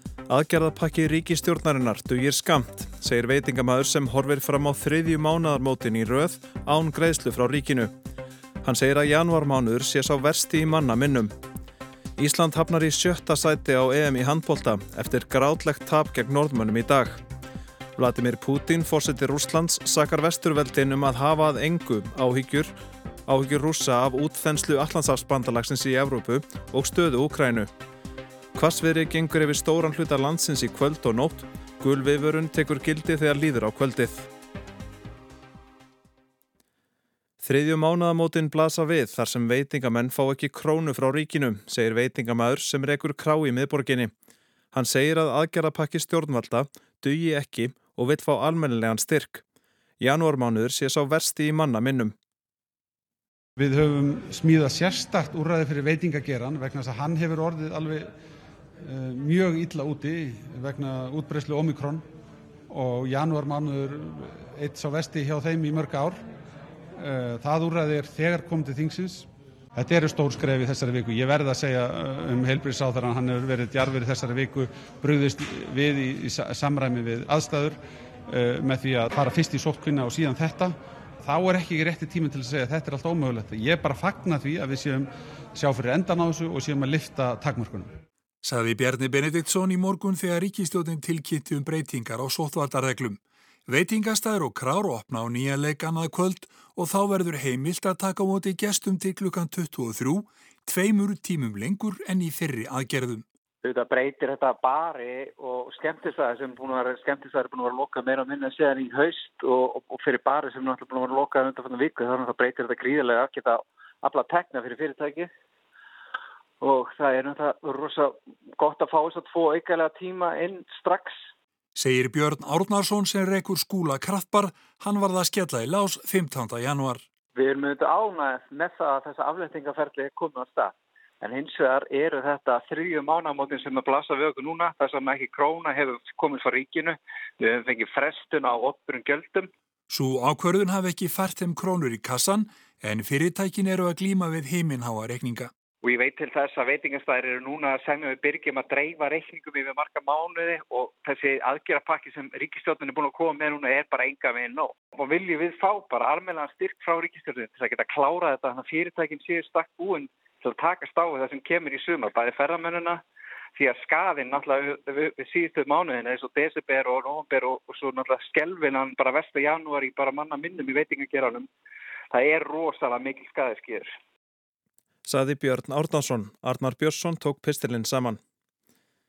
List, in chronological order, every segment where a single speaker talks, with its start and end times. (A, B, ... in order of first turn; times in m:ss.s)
0:00.3-0:07.9 A
0:08.6-0:11.3 A
0:12.2-0:17.2 A
0:18.0-0:22.7 A
0:23.3-0:27.7 A
0:28.5-0:34.3 A
0:37.4-0:44.1 A
0:44.7-0:49.4 A
0:50.0-0:52.1 A
0:53.6-0:58.1 B
0:58.8-1:02.1 B
1:02.7-1:06.2 B
1:07.0-1:28.0 B
1:28.4-1:43.2 C
1:43.6-1:55.3 D
1:56.6-2:01.2 D
2:01.8-2:07.0 C
2:07.4-2:19.5 D
2:19.9-2:25.5 C
2:25.8-2:43.0 D
2:43.6-2:51.5 D
2:52.1-2:53.9 D
2:55.0-2:58.2 A